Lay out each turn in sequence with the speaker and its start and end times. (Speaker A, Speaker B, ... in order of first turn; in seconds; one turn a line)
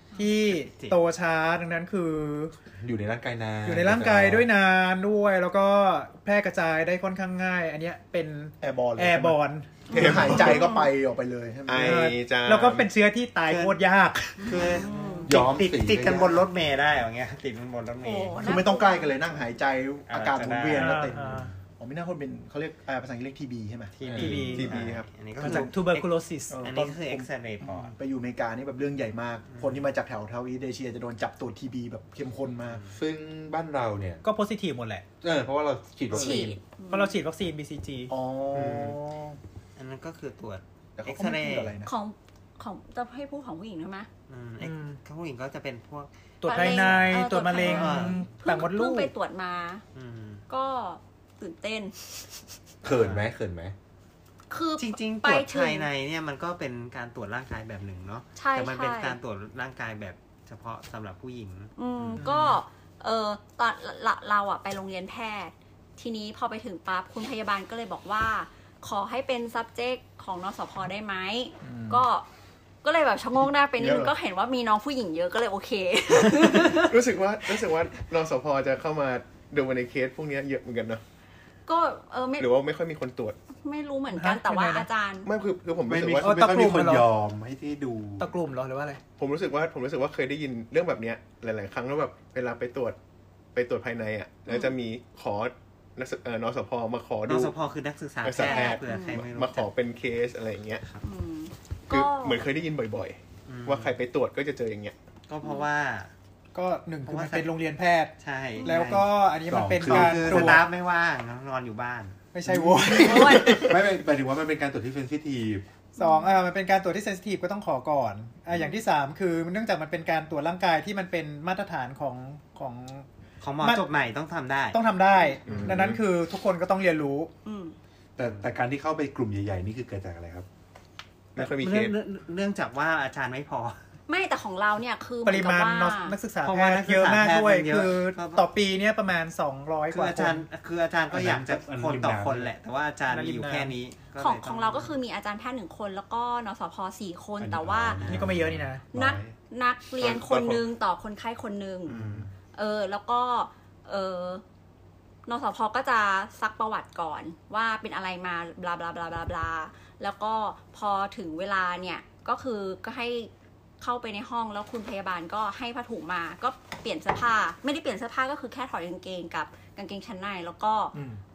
Speaker A: 0.1-2.5
Speaker B: 0.4-1.0
Speaker C: 2.8-4.5
Speaker A: 3.6-10.3
Speaker D: 8.6-12.1
Speaker E: 9.9-10.9
Speaker F: 9.9-10.7
Speaker F: 11.7-12.9
Speaker A: 11.8-14.9
Speaker B: 13.5-13.8
Speaker B: 14.4-18.5
Speaker E: 14.5-15.3
Speaker C: 15.3-16.4
Speaker E: 18.0-19.1
Speaker D: 18.4-24.2
Speaker B: 20.1-21.3
Speaker A: 20.7-21.5
Speaker B: 23.9-26.1
Speaker C: 24.1-24.5
Speaker A: 24.2-24.8
Speaker F: 24.2-25.2
Speaker A: 25.4-26.7
Speaker D: 25.4-25.7
Speaker D: 26.5-32.8
Speaker B: 26.6-27.9
Speaker B: 29.5-29.9
Speaker B: 32.6-33.0
Speaker C: 32.9-34.2
Speaker A: 34.2-35.0
Speaker C: 35.2-36.6
Speaker E: 36.1-37.2
Speaker D: 36.2-36.5
Speaker A: 36.9-38.1
Speaker D: 38.1-39.4
Speaker F: 38.6-38.8
Speaker B: 39.8-41.8
Speaker D: 41.0-41.9
Speaker E: 41.9-44.1
Speaker B: 44.3-48.3
Speaker A: 44.6-45.0
Speaker A: 46.4-49.1
Speaker E: 46.4-49.8
Speaker B: 50.0-50.4
Speaker E: 50.5-52.5
Speaker C: 52.8-53.7
Speaker B: 52.9-53.3
Speaker E: 54.5-55.9
Speaker B: 54.8-62.2
Speaker E: 58.4-59.2
Speaker E: 61.8-72.3
Speaker A: 62.2-62.6
Speaker D: 71.6-72.0
Speaker E: 72.8-77.0
Speaker D: 73.8-74.1
Speaker F: 76.7-81.0
Speaker E: 81.7-82.5
Speaker F: 82.4-83.4
Speaker E: 83.6-85.3
Speaker A: 84.1-84.9
Speaker F: 85.2-86.5
Speaker C: 85.9-88.3
Speaker A: 86.2-87.1
Speaker A: 88.2-89.0
Speaker F: 89.2-93.0
Speaker F: 93.5-97.5
Speaker B: 97.3-99.7
Speaker F: 98.2-100.8
Speaker E: 98.4-99.2
Speaker E: 101.0-102.4
Speaker F: 101.9-105.0
Speaker B: 103.5-104.0
Speaker B: 105.3-106.1
Speaker A: 106.5-110.6
Speaker B: 107.1-107.5
Speaker B: 108.2-109.1
Speaker C: 109.5-110.6
Speaker B: 109.8-112.2
Speaker A: 112.3-113.8
Speaker D: 112.5-113.3
Speaker C: 112.8-115.7
Speaker E: 113.0-113.7
Speaker A: 116.0-123.1
Speaker E: 116.0-116.3
Speaker B: 123.4-124.8
Speaker A: 123.6-123.8
Speaker A: 124.7-127.3
Speaker F: 125.5-126.0
Speaker E: 127.5-127.8
Speaker C: 128.2-130.5
Speaker B: 128.2-128.5
Speaker F: 131.3-132.0
Speaker B: 131.4-133.8
Speaker E: 134.1-136.2
Speaker A: 135.2-140.4
Speaker B: 136.4-138.4
Speaker B: 139.9-145.0
Speaker C: 141.1-142.5
Speaker A: 143.1-143.7
Speaker E: 144.2-148.0
Speaker C: 147.4-149.3
Speaker A: 148.0-148.9
Speaker E: 148.9-154.4
Speaker F: 150.0-150.6
Speaker C: 152.0-152.3
Speaker E: 155.3-170.9
Speaker D: 170.9-171.2